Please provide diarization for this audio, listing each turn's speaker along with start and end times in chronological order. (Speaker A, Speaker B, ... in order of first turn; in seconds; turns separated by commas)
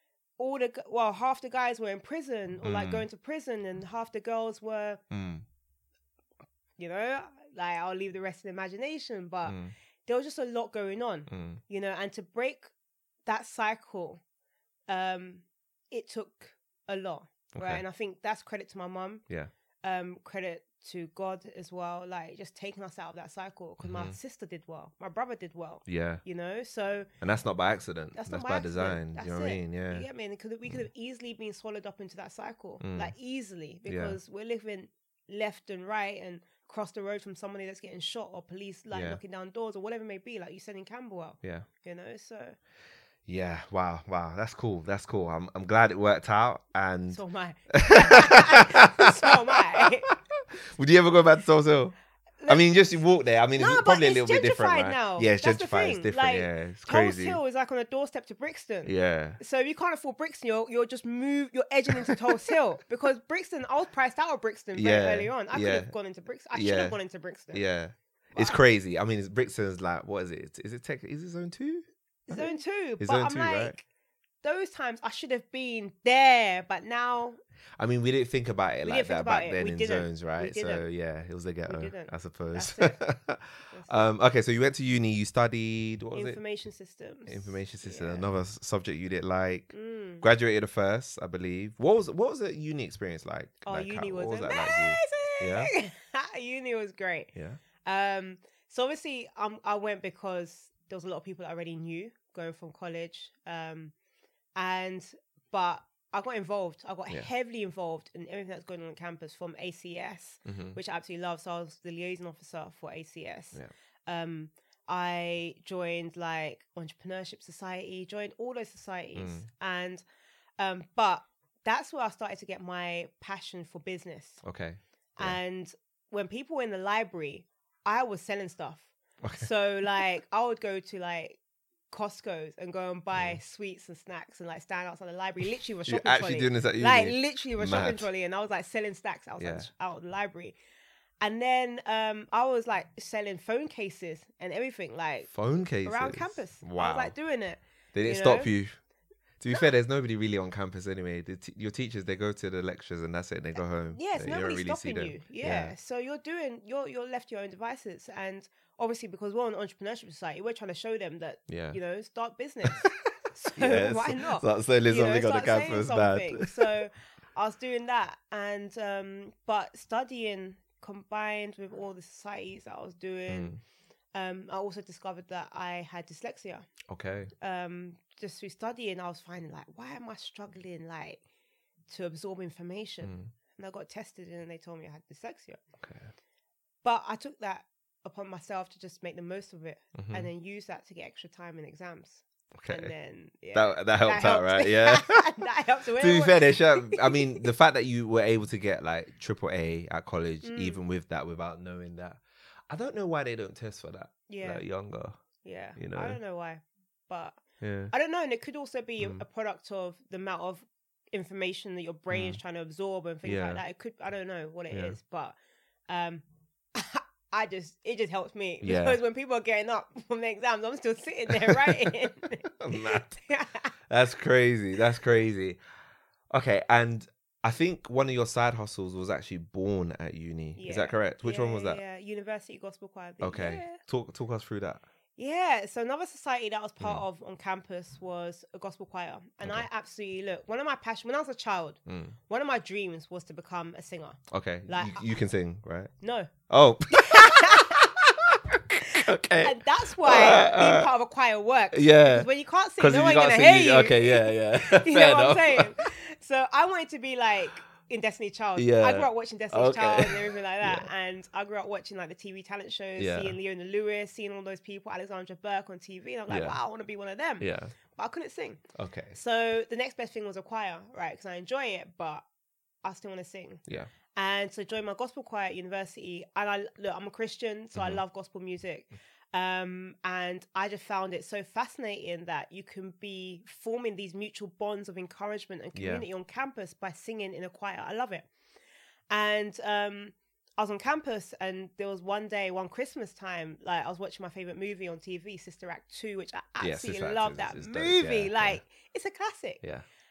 Speaker A: 0.4-5.0, Speaker B: 2.6-3.0, Speaker B: 5.1-5.4, Speaker A: 6.8-12.7, Speaker B: 9.4-9.7, Speaker B: 11.3-11.6, Speaker A: 13.2-14.2, Speaker A: 14.9-19.2, Speaker B: 17.5-17.8, Speaker A: 19.8-27.1, Speaker B: 23.8-24.1, Speaker B: 25.9-26.2, Speaker B: 27.2-30.1, Speaker A: 28.1-42.6, Speaker B: 32.8-33.1, Speaker B: 33.9-34.2, Speaker B: 38.9-39.2, Speaker B: 41.4-41.7, Speaker B: 43.2-47.2, Speaker A: 47.1-50.1, Speaker B: 47.7-52.0, Speaker A: 52.4-52.7, Speaker B: 52.5-57.4, Speaker A: 53.5-67.6, Speaker B: 58.8-59.4, Speaker B: 62.0-62.4, Speaker B: 64.7-65.9, Speaker B: 66.5-67.0, Speaker B: 67.5-73.7, Speaker A: 68.3-68.6, Speaker A: 72.3-73.8, Speaker A: 74.4-77.4, Speaker B: 77.8-86.4, Speaker A: 78.8-80.9, Speaker A: 81.7-83.0, Speaker A: 83.7-84.0, Speaker A: 86.1-88.2, Speaker B: 87.3-95.7, Speaker A: 89.7-90.2, Speaker A: 93.7-97.3, Speaker B: 97.3-97.6, Speaker A: 97.8-103.9, Speaker A: 104.5-120.0, Speaker B: 110.4-110.8, Speaker B: 119.2-119.5, Speaker A: 120.6-124.4, Speaker B: 124.4-125.4, Speaker A: 125.2-131.4, Speaker B: 129.2-129.5, Speaker A: 131.9-140.6, Speaker B: 135.8-138.1, Speaker B: 139.4-139.7, Speaker A: 141.2-145.3, Speaker B: 145.3-147.1, Speaker A: 145.8-148.5, Speaker B: 147.9-148.8, Speaker B: 149.4-155.7, Speaker A: 153.9-173.6, Speaker B: 161.5-161.8, Speaker B: 163.6-166.8, Speaker B: 173.3-173.6, Speaker A: 174.1-176.7, Speaker B: 176.9-177.3, Speaker A: 177.4-181.2, Speaker A: 181.9-185.6, Speaker B: 183.0-183.3, Speaker B: 185.8-186.1, Speaker A: 186.8-197.5, Speaker B: 189.9-190.3, Speaker B: 192.6-192.9, Speaker B: 193.5-195.4, Speaker B: 195.9-205.2, Speaker A: 200.4-200.8, Speaker A: 204.3-204.6, Speaker A: 205.4-215.3, Speaker B: 205.8-206.2, Speaker B: 207.6-207.9, Speaker B: 209.0-209.2, Speaker B: 212.1-212.4, Speaker B: 213.2-213.6, Speaker B: 214.7-215.0, Speaker A: 215.9-216.2, Speaker A: 216.7-223.7, Speaker B: 218.6-219.0, Speaker B: 221.3-223.2, Speaker B: 223.9-225.6, Speaker B: 226.3-231.8, Speaker A: 230.6-233.8, Speaker B: 233.2-234.8, Speaker A: 235.2-245.0, Speaker B: 241.9-242.2, Speaker B: 244.3-245.9, Speaker A: 246.0-246.3, Speaker B: 246.5-250.9, Speaker A: 246.9-247.9, Speaker A: 248.9-272.2, Speaker B: 251.7-255.9, Speaker B: 258.6-260.9, Speaker B: 263.0-263.4, Speaker B: 266.3-266.6, Speaker B: 267.4-267.7, Speaker B: 268.7-269.2, Speaker A: 272.8-273.6, Speaker A: 274.1-288.3, Speaker B: 277.7-278.0, Speaker B: 285.7-286.0, Speaker A: 289.1-299.6, Speaker B: 296.6-298.6